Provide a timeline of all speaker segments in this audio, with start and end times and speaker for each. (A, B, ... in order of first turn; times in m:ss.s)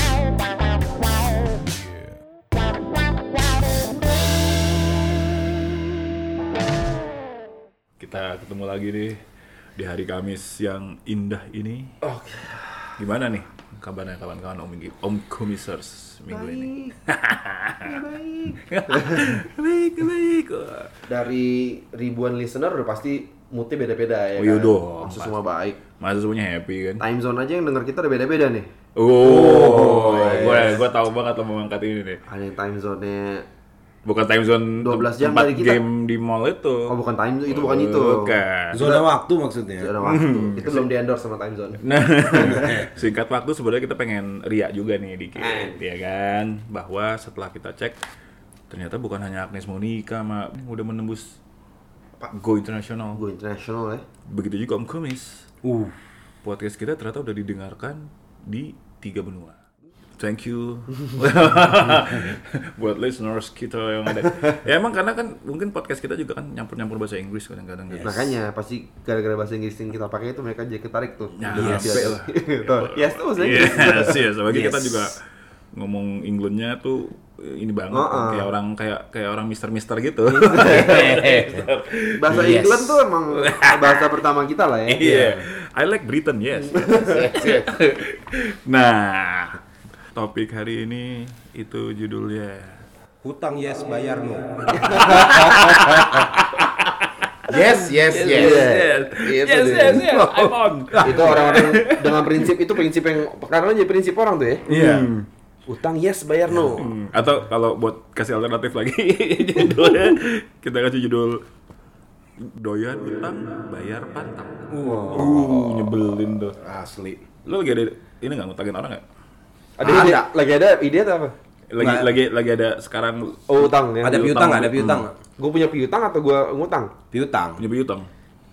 0:08.0-0:09.2 A
0:09.8-0:12.0 A
0:12.0-0:13.0 B
0:13.0-0:18.0 A
0:16.3-0:17.0 B
0:17.8-0:19.3 B
0:18.6-0:20.9 A
0:21.1-0:25.8 B
0:24.4-0:25.3 A
0:26.0-0:27.0 A
0:27.0-0:28.7 B
0:29.0-0:32.2 A
0:29.2-0:30.8 C
0:29.3-0:30.8 B
0:32.3-0:33.5 B
0:34.0-0:37.0 A
0:34.8-0:35.8 B
0:36.9-0:39.1 B
0:37.5-0:38.8 A
0:38.7-0:39.9 C
0:39.8-0:42.7 B
0:40.0-0:40.9 A
0:41.8-0:48.0 A
0:42.3-0:42.9 C
0:45.4-0:45.8 B
0:48.7-0:51.4 A
0:52.3-0:53.2 A
0:53.2-0:54.0 B
0:54.3-0:55.5 A
0:55.6-0:56.0 C
0:56.4-0:59.6 A
1:00.2-1:08.3 A
1:08.0-1:14.2 B
1:11.4-1:15.2 A
1:11.5-1:12.2 C
1:14.5-1:15.1 C
1:15.7-1:22.7 A
1:17.9-1:18.5 B
1:20.3-1:25.3 B
1:20.4-1:21.7 C
1:22.3-1:23.0 C
1:23.3-1:24.1 A
1:24.9-1:29.6 A
1:25.0-1:25.4 C
1:26.7-1:27.5 B
1:27.1-1:27.7 C
1:30.1-1:32.8 A
1:33.2-1:36.3 C
1:34.8-1:35.5 B
1:34.9-1:42.5 A
1:37.5-1:38.7 C
1:38.1-1:40.1 B
1:40.0-1:41.4 C
1:41.0-1:44.7 B
1:44.7-1:45.1 C
1:44.7-1:45.3 A
1:45.7-1:46.9 B
1:46.8-1:51.4 A
1:52.4-1:56.6 A
1:54.7-1:56.0 C
1:56.6-1:57.2 C
1:57.4-1:59.0 A
1:59.8-2:01.3 B
1:59.8-2:00.3 C
2:01.7-2:03.4 A
2:01.8-2:02.1 C
2:03.5-2:04.4 B
2:04.0-2:05.1 C
2:04.1-2:05.0 A
2:05.4-2:07.0 B
2:07.1-2:07.6 C
2:07.6-2:08.1 A